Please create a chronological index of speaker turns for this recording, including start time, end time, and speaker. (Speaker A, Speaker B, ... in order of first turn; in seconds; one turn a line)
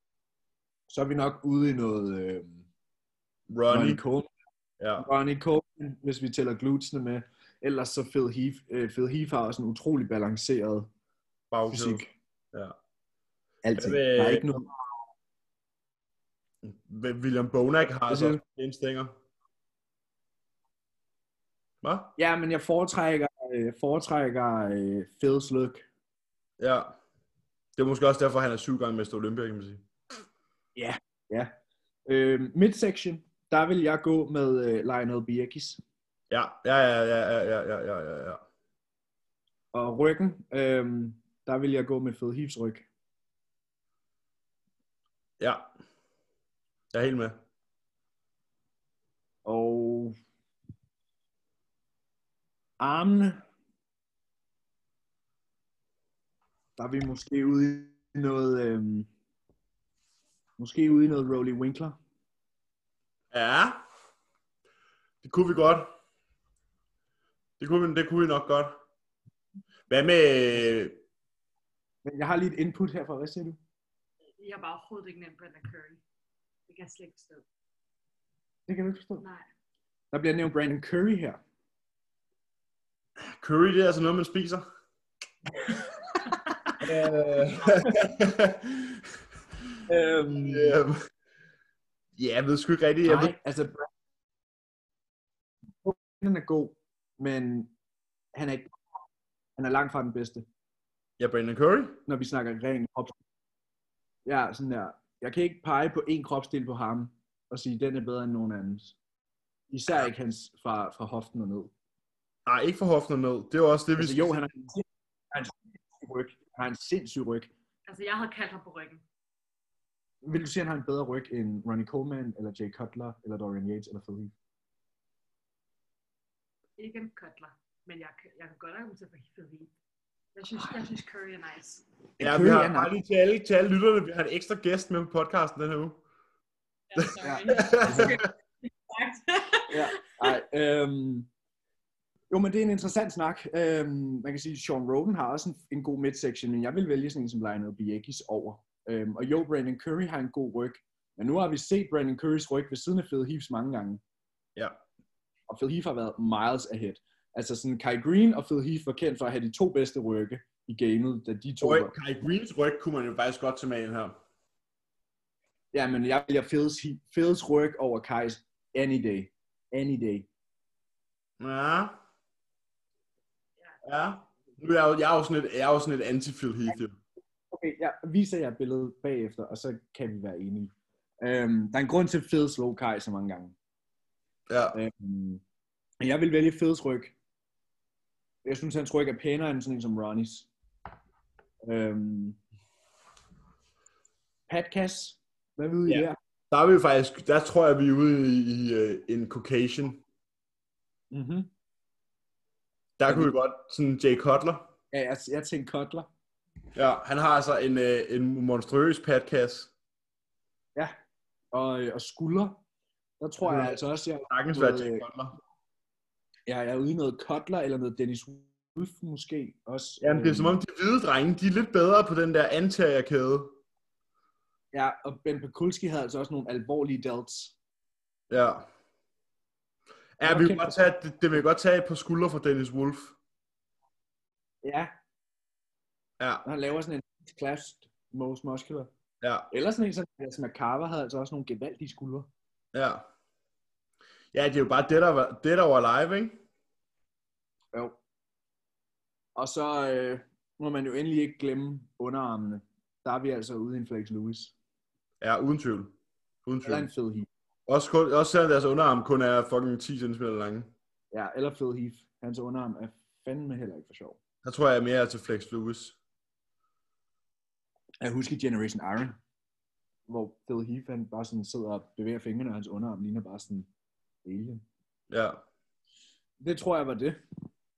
Speaker A: 0.9-2.6
Speaker B: 3.5-4.0
Speaker A: 3.7-4.3
Speaker B: 4.8-5.1
Speaker A: 5.0-10.9
Speaker B: 11.5-12.7
Speaker A: 11.7-12.1
Speaker A: 13.6-14.7
Speaker B: 13.8-14.5
Speaker B: 16.6-19.1
Speaker A: 18.1-18.4
Speaker B: 21.8-22.1
Speaker A: 22.2-25.8
Speaker B: 26.6-26.9
Speaker B: 27.8-29.8
Speaker A: 30.7-31.5
Speaker A: 32.1-35.8
Speaker B: 36.3-38.4
Speaker A: 39.7-42.9
Speaker B: 45.4-45.7
Speaker B: 46.9-47.4
Speaker A: 49.4-50.1
Speaker A: 52.8-53.4
Speaker A: 56.8-59.1
Speaker A: 60.6-62.0
Speaker B: 63.3-63.8
Speaker B: 65.2-65.9
Speaker B: 67.6-68.7
Speaker B: 69.9-71.0
Speaker A: 72.0-73.6
Speaker C: 74.4-76.0
Speaker C: 76.7-77.4
Speaker A: 78.7-79.2
Speaker C: 79.2-79.4
Speaker A: 80.1-81.4
Speaker B: 83.3-84.6
Speaker A: 86.8-88.0
Speaker B: 86.8-89.0
Speaker A: 89.9-90.8
Speaker B: 90.3-91.0
Speaker B: 92.2-93.3
Speaker A: 93.0-93.9
Speaker A: 95.8-97.7
Speaker A: 98.3-98.7
Speaker A: 99.6-100.5
Speaker B: 101.2-102.0
Speaker A: 102.0-103.2
Speaker A: 104.2-108.9
Speaker A: 109.7-111.7
Speaker B: 112.5-114.5
Speaker A: 114.0-117.5
Speaker C: 117.9-119.0
Speaker A: 120.2-124.3
Speaker C: 126.8-129.7
Speaker C: 130.3-131.8
Speaker A: 132.2-132.9
Speaker B: 132.2-136.0
Speaker C: 136.9-139.8
Speaker B: 137.0-138.2
Speaker A: 137.2-138.2
Speaker A: 139.7-141.3
Speaker A: 142.3-154.0
Speaker A: 155.5-161.9
Speaker B: 161.6-164.2
Speaker A: 165.7-170.3
Speaker B: 171.4-171.9
Speaker B: 173.8-177.0
Speaker A: 177.5-180.7
Speaker A: 181.2-183.5
Speaker B: 184.5-184.8
Speaker A: 184.7-185.4
Speaker A: 186.0-187.1
Speaker A: 188.4-190.5
Speaker A: 191.6-192.4
Speaker A: 194.5-196.2
Speaker B: 195.9-200.0
Speaker A: 201.1-201.5
Speaker B: 203.0-204.7
Speaker A: 204.9-206.1
Speaker B: 206.7-209.7
Speaker A: 211.5-212.6
Speaker A: 213.2-215.1
Speaker B: 213.4-215.4
Speaker A: 216.5-220.6
Speaker B: 220.0-223.6
Speaker A: 224.7-227.5
Speaker B: 228.3-228.7
Speaker B: 230.2-233.2
Speaker A: 230.2-230.8
Speaker A: 234.6-234.9
Speaker B: 236.2-236.4
Speaker A: 236.4-238.9
Speaker B: 239.2-239.5
Speaker A: 239.5-242.3
Speaker B: 242.7-243.1
Speaker B: 244.3-246.3
Speaker A: 249.3-254.5
Speaker B: 255.2-255.9
Speaker B: 256.4-256.9
Speaker A: 256.6-257.3
Speaker B: 257.7-260.7
Speaker A: 261.1-264.2
Speaker B: 264.4-265.9
Speaker A: 268.0-269.2
Speaker A: 270.1-273.7
Speaker A: 274.2-274.6
Speaker B: 275.1-275.4
Speaker A: 276.4-277.2